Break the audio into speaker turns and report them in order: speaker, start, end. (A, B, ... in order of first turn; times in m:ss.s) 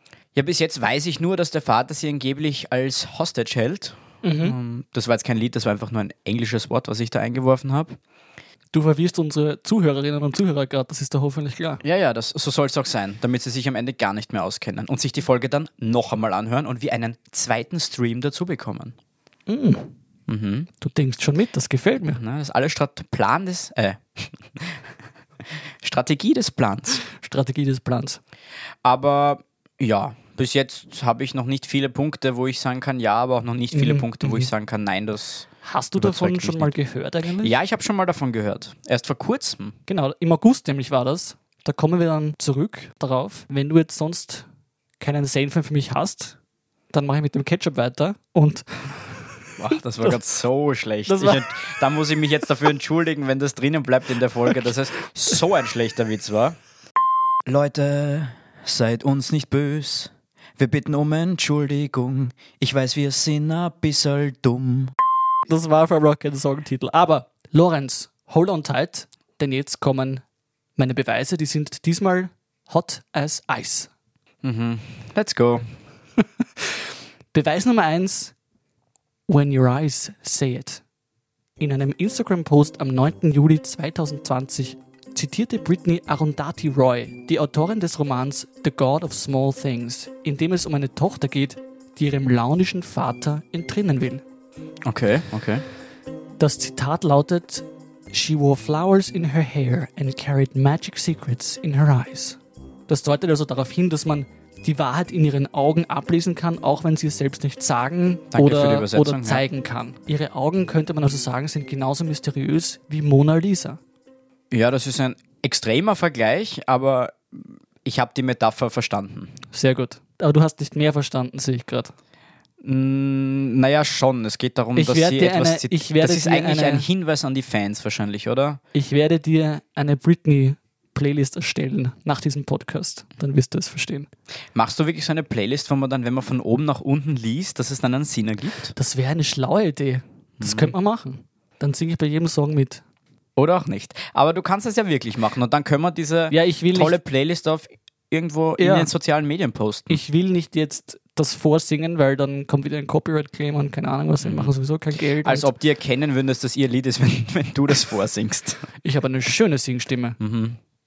0:00.4-0:08.0 A
0:04.2-0:04.6 B
0:08.7-0:11.8 B
0:11.8-0:18.9 A
0:19.5-0:19.9 B
0:20.3-0:20.7 A
0:20.8-0:22.2 B
0:22.1-0:24.8 A
0:25.8-0:27.0 A
0:27.1-0:28.2 B
0:28.8-0:36.7 A
0:33.7-0:34.5 B
0:35.6-0:37.5 B
0:37.4-0:39.8 A
0:39.9-0:44.4 B
0:45.0-0:46.4 B
0:46.9-0:49.1 B
0:49.6-0:56.6 A
0:51.1-0:51.5 B
0:57.4-1:04.9 A
1:05.4-1:10.2 B
1:10.8-1:13.9 B
1:14.4-1:15.7 A
1:16.6-1:18.3 B
1:19.3-1:20.8 B
1:21.6-1:34.2 B
1:34.8-1:35.6 A
1:36.4-1:53.8 B
1:48.3-1:49.4 A
1:54.5-1:59.4 A
1:59.5-2:01.9 B
2:02.6-2:08.6 A
2:04.8-2:06.9 B
2:08.7-2:14.1 B
2:14.6-2:18.8 A
2:18.8-2:22.8 B
2:20.4-2:20.7 A
2:23.4-2:30.0 A
2:26.3-2:27.0 B
2:28.6-2:28.9 B
2:29.9-2:35.5 B
2:34.2-2:34.5 A
2:35.2-2:38.7 A
2:38.8-2:40.2 B
2:40.2-2:40.6 A